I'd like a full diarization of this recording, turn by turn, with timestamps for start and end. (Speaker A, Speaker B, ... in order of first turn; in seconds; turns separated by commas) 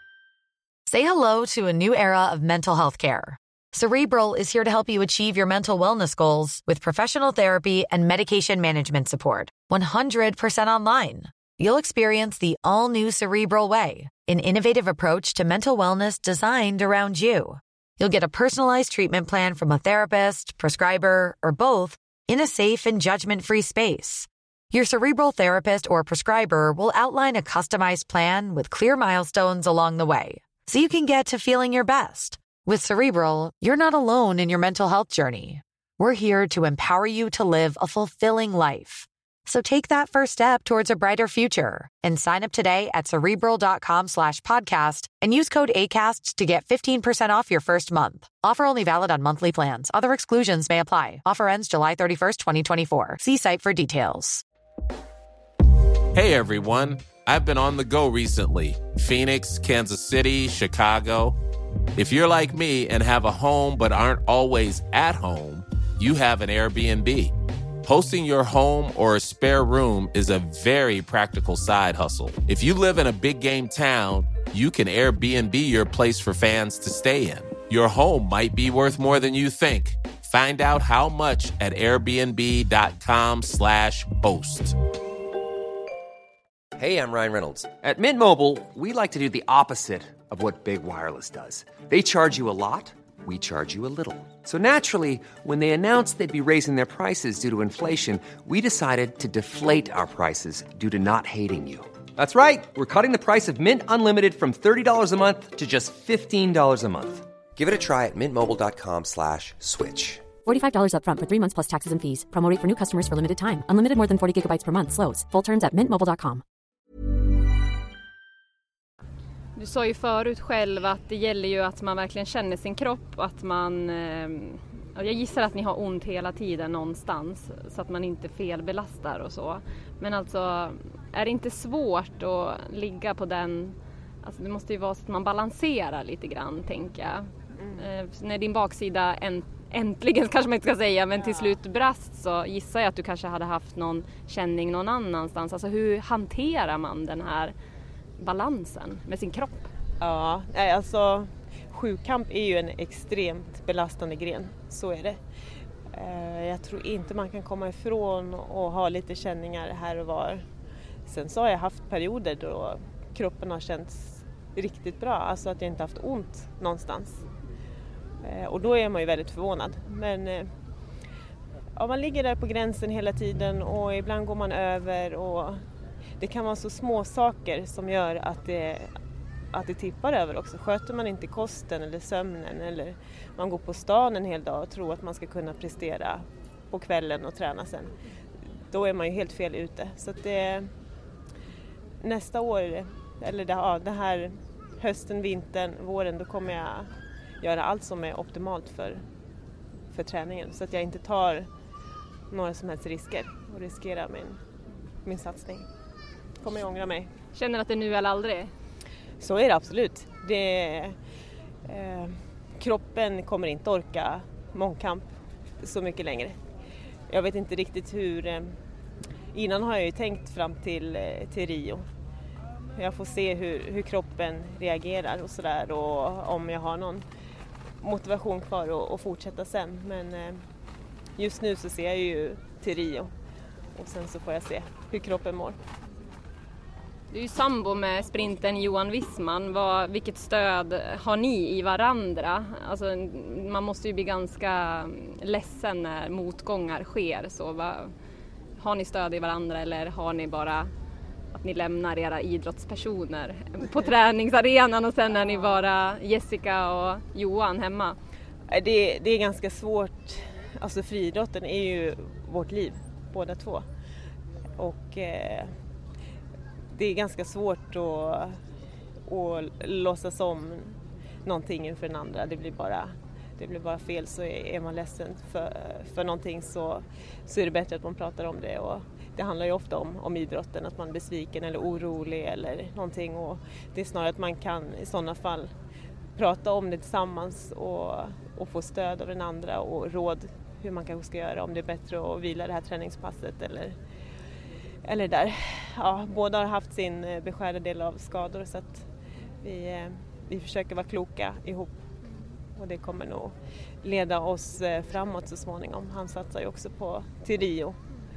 Speaker A: 0.9-54.4, Speaker B: 56.1-61.4, Speaker B: 62.0-67.3, Speaker B: 67.8-84.8, Speaker C: 86.8-110.3, Speaker D: 110.4-116.4, Speaker E: 119.6-147.5, Speaker F: 137.6-137.8, Speaker F: 141.2-141.5, Speaker E: 148.2-149.7, Speaker F: 150.0-155.2, Speaker F: 155.9-160.4, Speaker F: 161.1-167.2, Speaker F: 168.2-170.5, Speaker F: 171.8-175.6, Speaker F: 176.2-178.9, Speaker F: 179.5-187.9, Speaker F: 188.7-190.7, Speaker F: 192.0-196.9, Speaker F: 197.4-199.0, Speaker F: 199.9-201.5, Speaker F: 202.3-204.4, Speaker F: 205.1-205.7, Speaker F: 206.4-207.1, Speaker E: 207.3-208.5, Speaker F: 209.2-211.0, Speaker F: 211.7-215.1, Speaker F: 215.6-216.4, Speaker F: 217.1-218.5, Speaker F: 219.3-221.8, Speaker F: 222.8-227.1, Speaker F: 227.8-230.4, Speaker F: 231.2-233.1, Speaker F: 233.8-235.6, Speaker E: 237.1-247.9, Speaker E: 248.6-250.7, Speaker E: 251.3-258.0, Speaker F: 258.5-263.7, Speaker F: 264.6-265.5, Speaker F: 266.7-268.4, Speaker F: 269.1-285.5, Speaker F: 286.2-293.8, Speaker F: 294.9-298.9, Speaker F: 299.4-301.8, Speaker F: 302.6-307.8